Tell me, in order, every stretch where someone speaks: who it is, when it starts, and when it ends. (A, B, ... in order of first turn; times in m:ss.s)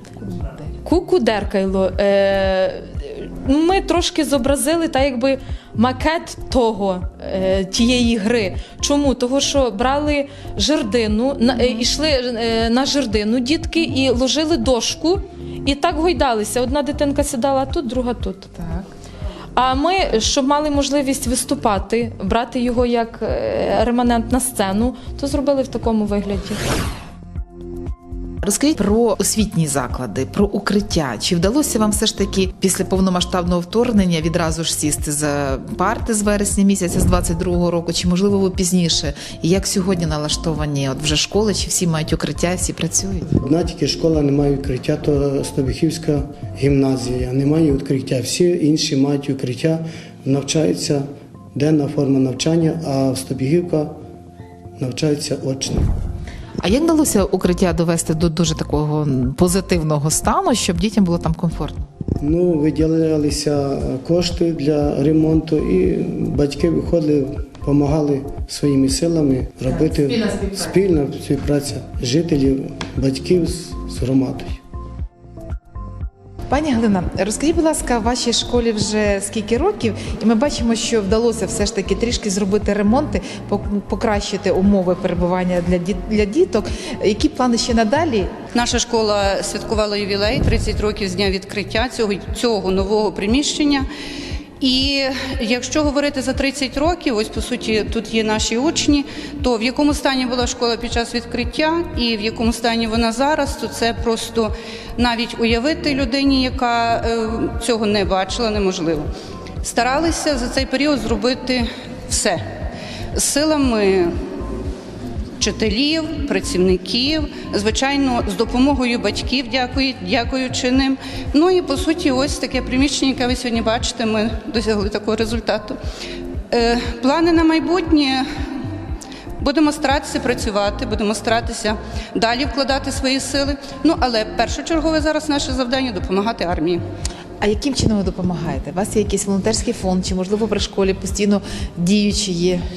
0:00.8-0:18.5 A
0:11.6-0:11.8 B
0:18.5-0:18.9 B
0:19.6-0:26.6 A
0:28.4-0:43.4 B
0:43.4-0:54.0 C
0:54.8-0:55.9 C
0:56.6-1:01.9 B
1:02.2-1:14.6 C
1:09.7-1:10.8 B
1:16.5-1:28.3 B
1:28.6-1:33.9 D
1:34.6-1:49.1 D
1:49.6-1:52.4 D
1:53.1-1:54.2 D
1:55.4-2:05.8 D
2:06.5-2:08.3 D
2:09.4-2:16.8 D
2:17.4-2:22.6 B